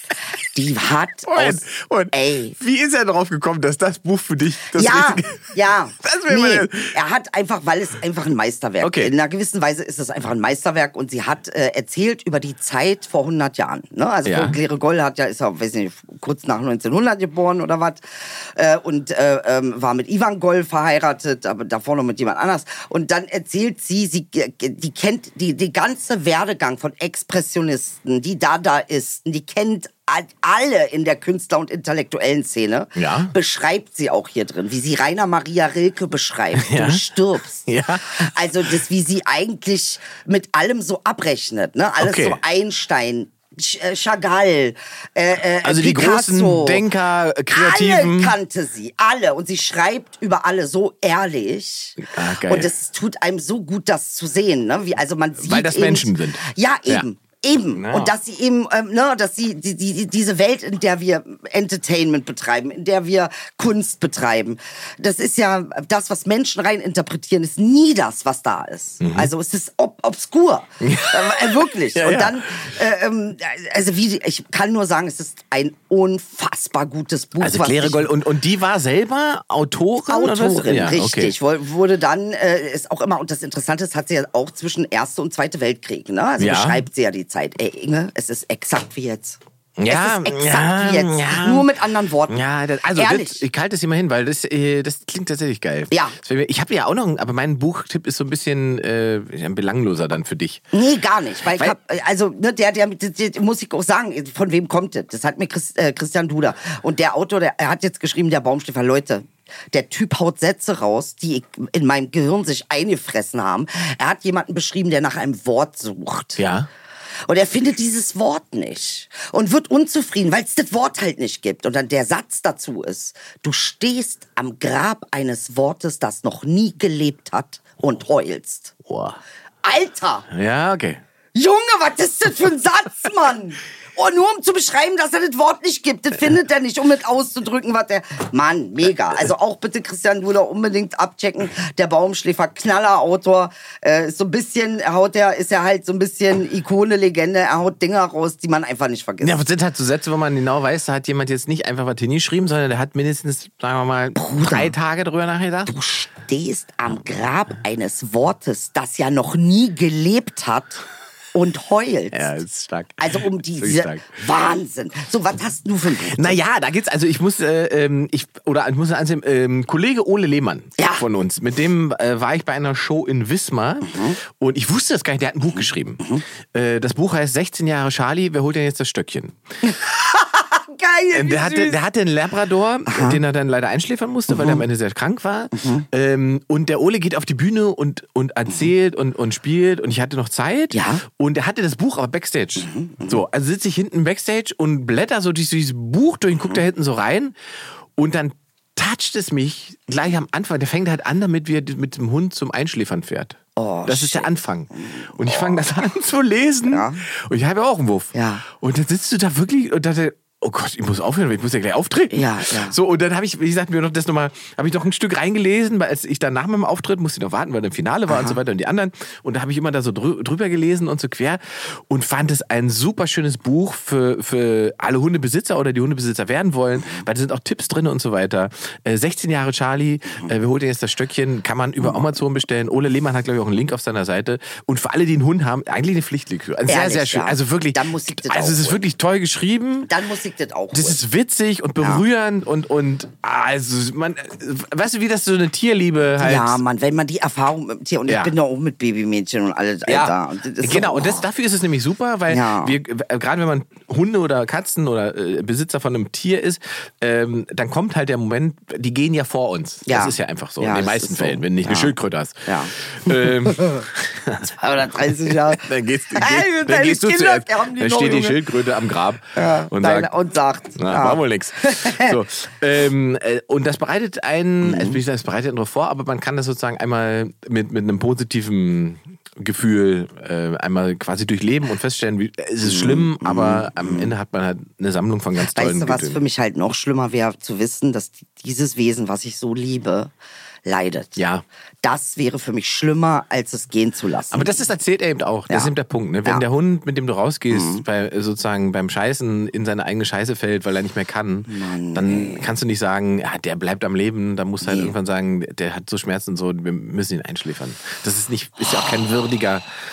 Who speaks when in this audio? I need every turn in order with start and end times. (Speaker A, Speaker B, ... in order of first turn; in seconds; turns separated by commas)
Speaker A: 0.5-2.5, Speaker B: 1.3-6.9, Speaker A: 4.7-46.8, Speaker B: 8.8-9.1, Speaker B: 14.2-14.6, Speaker B: 33.0-33.3, Speaker B: 36.6-37.0, Speaker B: 37.6-38.7, Speaker B: 42.0-42.4, Speaker B: 45.6-48.3, Speaker A: 47.5-78.1, Speaker B: 52.0-52.7, Speaker B: 55.4-57.0, Speaker B: 57.7-58.1, Speaker B: 69.0-69.3, Speaker B: 70.8-72.6, Speaker B: 77.4-81.3, Speaker A: 80.0-92.4, Speaker B: 86.4-86.8, Speaker B: 89.8-91.7, Speaker B: 92.3-100.7, Speaker A: 92.9-93.4, Speaker A: 100.7-116.4, Speaker B: 116.4-116.7, Speaker A: 117.3-128.7, Speaker B: 128.8-129.2, Speaker A: 129.6-130.3, Speaker B: 130.3-131.0, Speaker A: 131.3-149.4, Speaker B: 149.2-155.7, Speaker A: 154.2-154.7, Speaker A: 155.7-160.8, Speaker A: 161.3-162.3, Speaker B: 162.1-164.1, Speaker A: 163.0-166.4, Speaker B: 166.1-179.4, Speaker A: 170.8-171.0, Speaker A: 173.8-174.2, Speaker A: 179.6-181.8, Speaker B: 181.1-197.3, Speaker A: 182.9-183.2, Speaker A: 184.3-184.6, Speaker A: 185.5-185.8, Speaker A: 190.7-191.0, Speaker A: 192.6-193.2, Speaker B: 198.0-239.9, Speaker A: 203.6-205.6, Speaker A: 206.7-207.0, Speaker A: 208.1-208.4, Speaker A: 212.1-212.8, Speaker A: 218.1-218.4, Speaker A: 236.7-238.8, Speaker A: 239.8-241.0, Speaker B: 240.7-246.6, Speaker A: 246.2-251.2, Speaker B: 248.1-248.3, Speaker B: 249.8-270.1, Speaker A: 252.3-252.8, Speaker A: 259.9-261.9, Speaker A: 262.4-263.8, Speaker A: 264.4-268.4, Speaker A: 269.3-272.1, Speaker B: 270.8-286.2, Speaker A: 274.6-275.0, Speaker A: 282.6-284.1, Speaker A: 285.5-290.1, Speaker A: 290.6-291.2, Speaker B: 291.1-291.4, Speaker A: 291.8-294.6, Speaker B: 294.3-309.6, Speaker A: 297.5-297.8, Speaker A: 301.5-302.5, Speaker A: 304.6-304.9